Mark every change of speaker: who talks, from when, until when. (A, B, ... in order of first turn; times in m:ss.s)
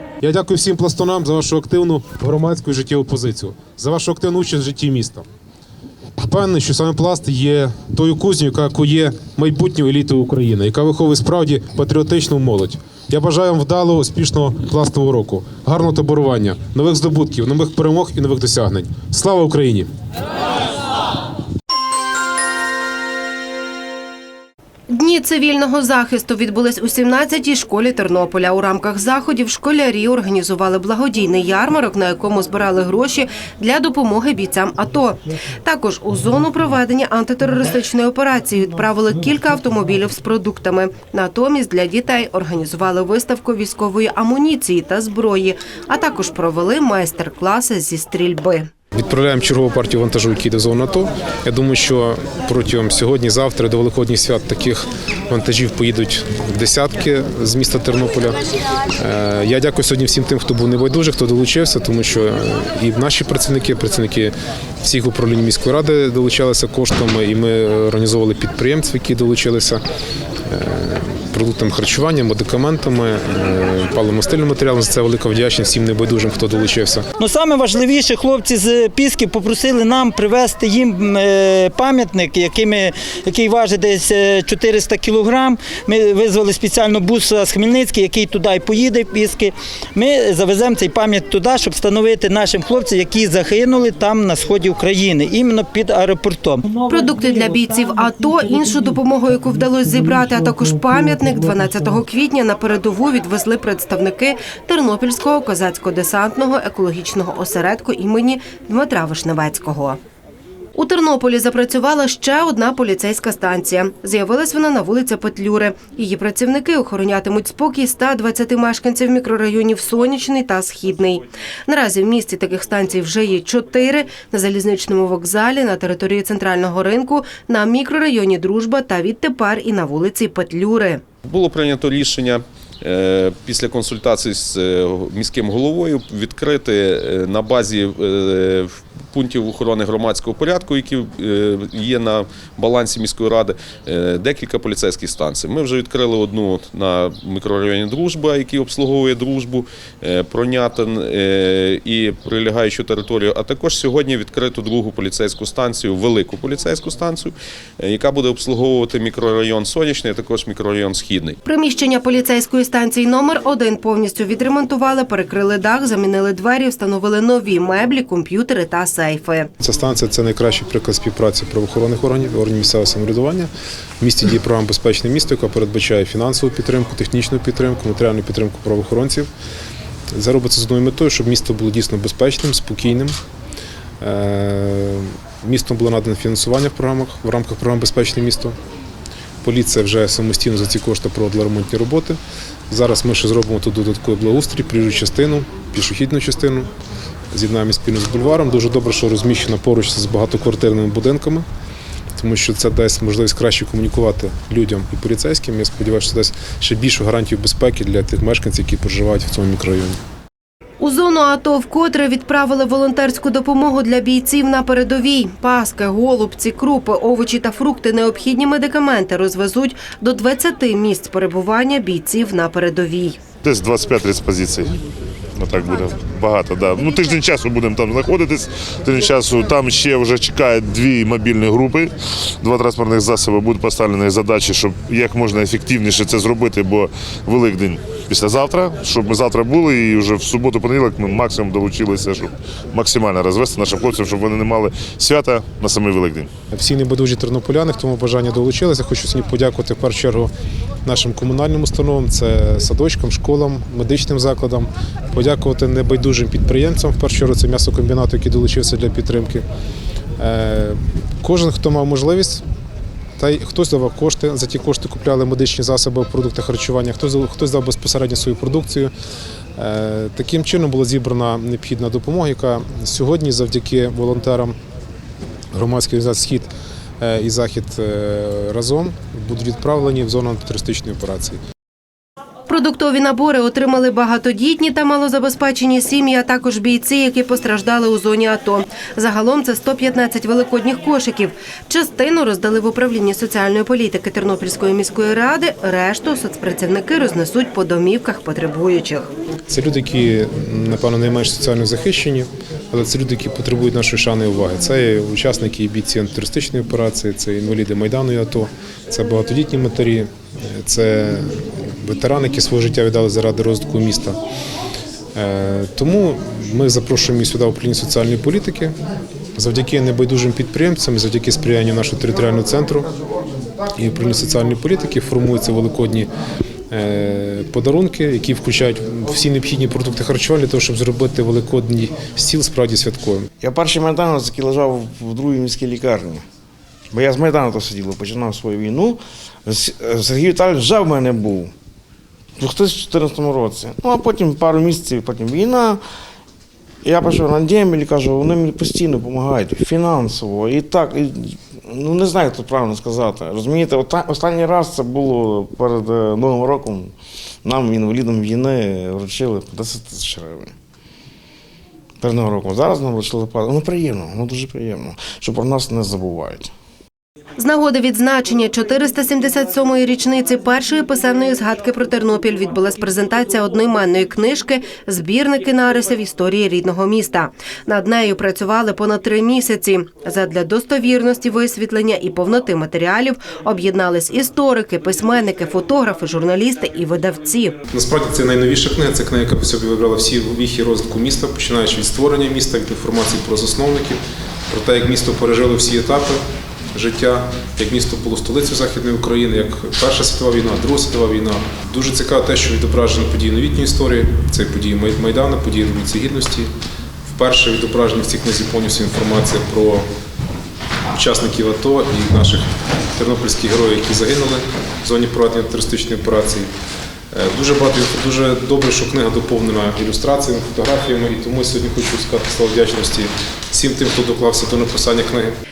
0:00.2-0:05.2 A
0:06.2-0:19.9 A
0:24.9-0:48.7 B
0:48.9-0:58.4 A
0:59.0-1:09.8 A
1:10.5-1:17.1 A
1:17.2-1:37.0 C
1:36.9-1:50.0 B
1:50.7-2:11.0 B
2:11.2-2:41.4 D
2:41.4-2:49.5 B
2:49.6-2:53.5 A
2:54.0-2:59.3 A
3:00.1-3:03.1 A
3:04.0-3:08.5 A
3:09.4-3:12.2 A
3:12.7-3:16.7 A
3:17.3-3:21.5 A
3:22.1-3:29.9 A
3:30.8-3:43.2 B
3:43.4-3:44.7 E
3:45.4-4:06.3 E
4:06.5-4:10.3 A
4:10.8-4:19.4 A
4:20.2-4:22.4 A
4:23.2-4:28.9 A
4:29.6-4:34.5 A
4:35.5-4:36.5 A
4:37.0-4:41.4 A
4:42.5-4:59.1 B
4:59.5-5:14.2 A
5:15.1-5:18.7 A
5:19.4-5:22.9 A
5:23.7-5:26.1 A
5:26.7-5:33.3 A
5:33.4-5:36.2 F
5:36.9-5:41.5 F
5:42.4-5:45.8 F
5:46.8-6:00.5 F
6:02.0-6:06.5 F
6:07.4-6:27.6 B
6:27.7-6:36.2 A
6:36.7-6:46.5 A
6:47.1-6:49.8 A
6:50.9-6:56.5 A
6:57.1-7:05.4 A